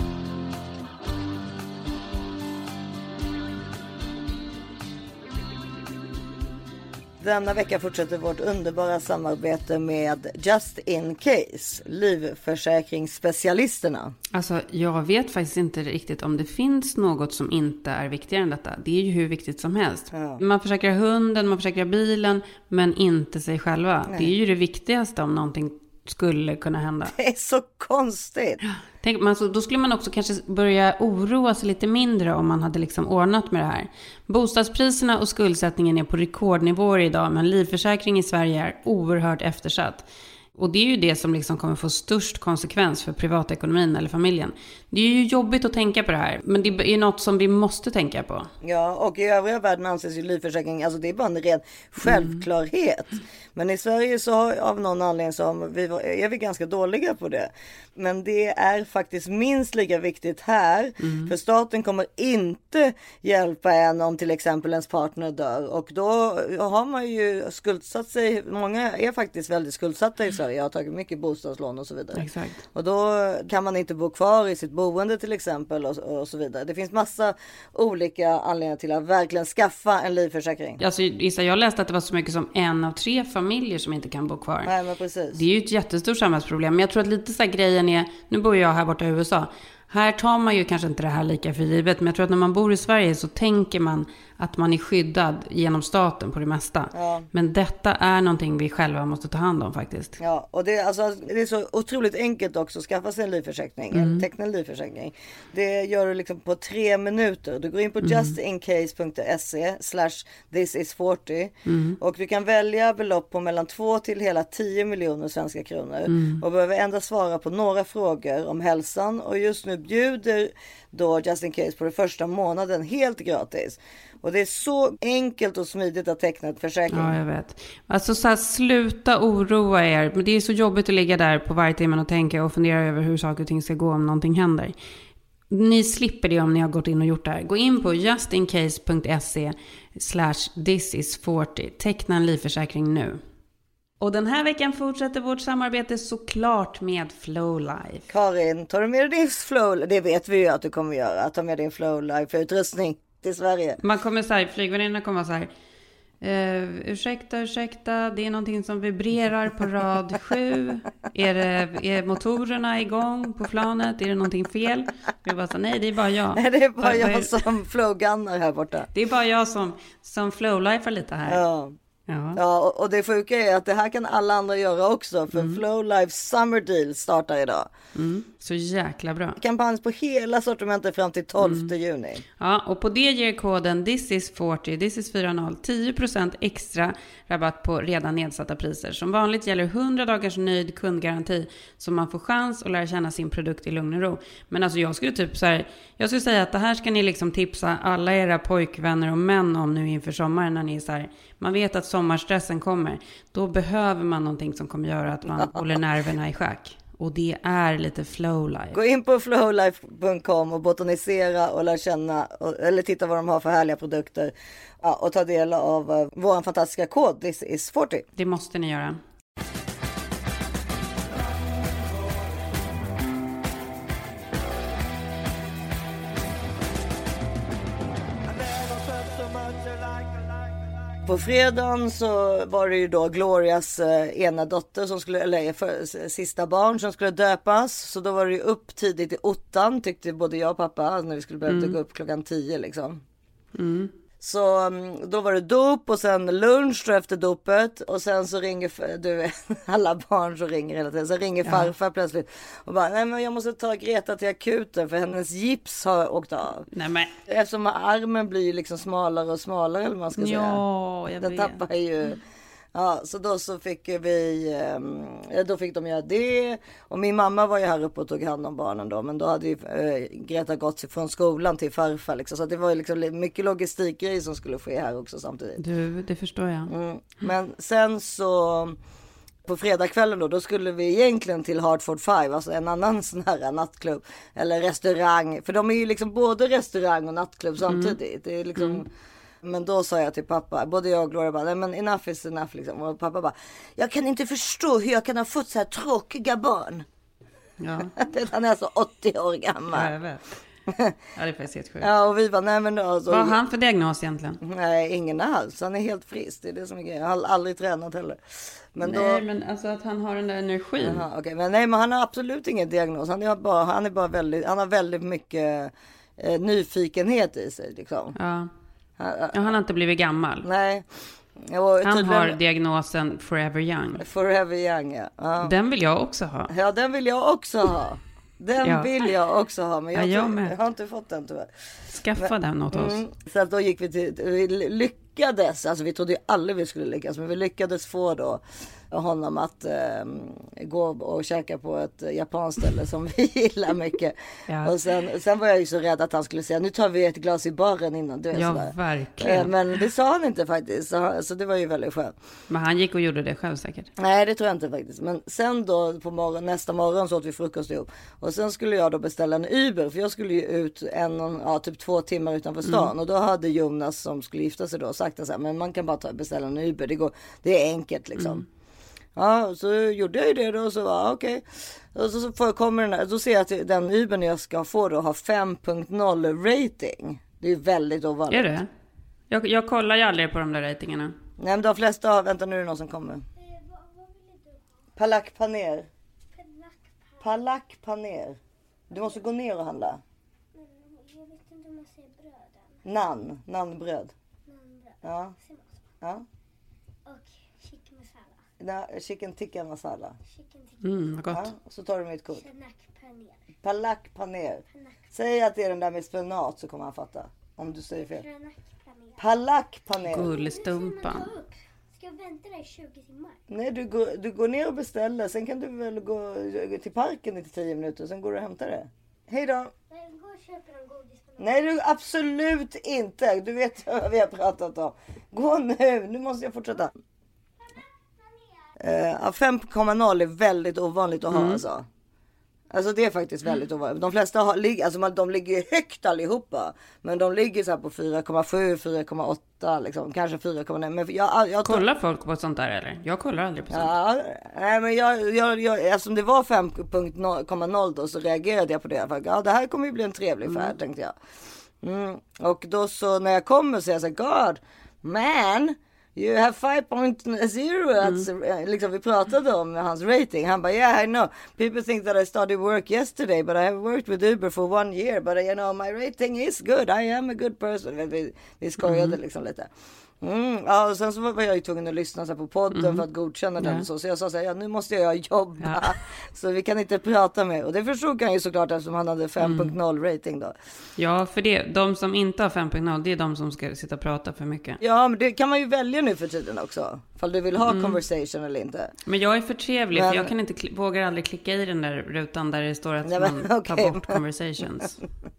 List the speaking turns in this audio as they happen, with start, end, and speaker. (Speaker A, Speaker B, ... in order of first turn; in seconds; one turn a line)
Speaker A: 7.2-14.1
Speaker B: 14.3-27.1
Speaker A: 20.1-20.4
Speaker A: 27.1-28.6
Speaker B: 28.7-48.5
Speaker A: 48.6-80.8
Speaker B: 52.1-52.4
Speaker B: 61.0-61.3
Speaker B: 72.2-72.6
Speaker B: 80.8-84.7
Speaker A: 84.6-85.4
Speaker B: 85.3-100.2
Speaker A: 96.9-97.3
Speaker A: 100.2-127.2
Speaker B: 103.9-104.2
Speaker B: 108.0-108.3
Speaker B: 111.7-112.0
Speaker B: 116.1-116.4
Speaker B: 126.9-134.7
Speaker B: 135.5-143.2
Speaker B: 144.0-148.1
Speaker A: 148.1-153.8
Speaker B: 153.8-155.5
Speaker B: 156.2-167.3
Speaker A: 166.3-168.9
Speaker B: 168.9-171.4
Speaker A: 171.3-171.8
Speaker B: 172.1-172.4
Speaker A: 172.3-177.7
Speaker B: 175.3-175.6
Speaker B: 177.9-179.4
Speaker A: 179.4-182.2
Speaker B: 181.4-181.7
Speaker B: 182.4-208.8
Speaker A: 205.4-205.6
Speaker A: 208.7-218.1
Speaker B: 218.2-219.0
Speaker A: 231.1-243.0
Speaker B: 241.5-241.8
Speaker B: 243.6-243.9
Speaker A: 244.2-256.7
Speaker B: 251.4-251.7
Speaker B: 256.7-257.1
Speaker A: 257.3-260.6
Speaker B: 260.2-261.6
Speaker A: 261.2-262.2
Speaker A: 262.7-275.6
Speaker B: 275.6-276.7
Speaker A: 276.7-278.8
Speaker A: 279.5-288.9
Speaker B: 287.7-288.0
Speaker B: 288.6-288.8
Speaker A: 289.4-296.9
Speaker B: 297.6-298.0
Speaker A: 298.0-299.9
Speaker B: 299.7-300.2
Speaker A: 300.7-300.9
Speaker B: 301.2-301.9
Speaker A: 301.8-303.4
Speaker B: 303.1-304.4
Speaker A: 304.4-308.2
Speaker A: 308.8-309.2
Speaker B: 308.8-311.0
Speaker A: 310.8-318.1
Speaker B: 318.2-318.5
Speaker A: 319.0-319.5
Speaker B: 319.3-320.5
Speaker A: 320.4-320.9
Speaker A: 321.4-322.4
Speaker B: 321.8-324.0
Speaker A: 324.0-325.5
Speaker B: 325.4-326.5
Speaker A: 326.5-331.5
Speaker B: 328.6-328.9
Speaker B: 329.9-330.5
Speaker B: 331.9-333.0
Speaker A: 332.2-352.1
Speaker B: 344.5-344.7
Speaker B: 348.3-349.8
Speaker B: 352.5-353.9
Speaker A: 354.0-368.4
Speaker B: 362.7-362.9
Speaker B: 368.2-368.4
Speaker A: 369.2-378.5
Speaker B: 378.3-378.6
Speaker B: 379.3-381.1
Speaker A: 381.4-383.2
Speaker C: 383.4-384.6
Speaker A: 385.0-385.9
Speaker C: 386.3-387.4
Speaker A: 387.2-388.4
Speaker A: 388.9-390.0
Speaker C: 390.6-392.8
Speaker A: 392.9-394.1
Speaker C: 394.5-395.8
Speaker A: 395.0-395.3
Speaker C: 397.1-398.4
Speaker A: 398.6-400.2
Speaker C: 400.3-400.9
Speaker B: 400.8-401.4
Speaker A: 401.3-402.4
Speaker C: 402.4-403.4
Speaker A: 403.6-408.2
Speaker C: 408.1-409.2
Speaker A: 409.2-410.3
Speaker B: 410.1-411.3
Speaker C: 410.3-413.4
Speaker A: 413.5-419.7
Speaker C: 419.9-421.6
Speaker A: 421.4-426.9
Speaker A: 428.8-431.9
Speaker B: 431.3-431.6
Speaker A: 432.7-441.8
Speaker B: 441.6-443.9
Speaker A: 443.7-451.1
Speaker B: 450.5-450.7
Speaker A: 451.8-469.7
Speaker B: 468.8-469.2
Speaker A: 470.2-480.5
Speaker B: 472.7-473.1
Speaker B: 473.6-473.9
Speaker B: 479.4-479.7
Speaker B: 481.0-484.8
Speaker A: 484.8-488.9
Speaker B: 487.7-488.0
Speaker B: 489.1-495.0
Speaker A: 489.9-490.3
Speaker A: 493.1-494.1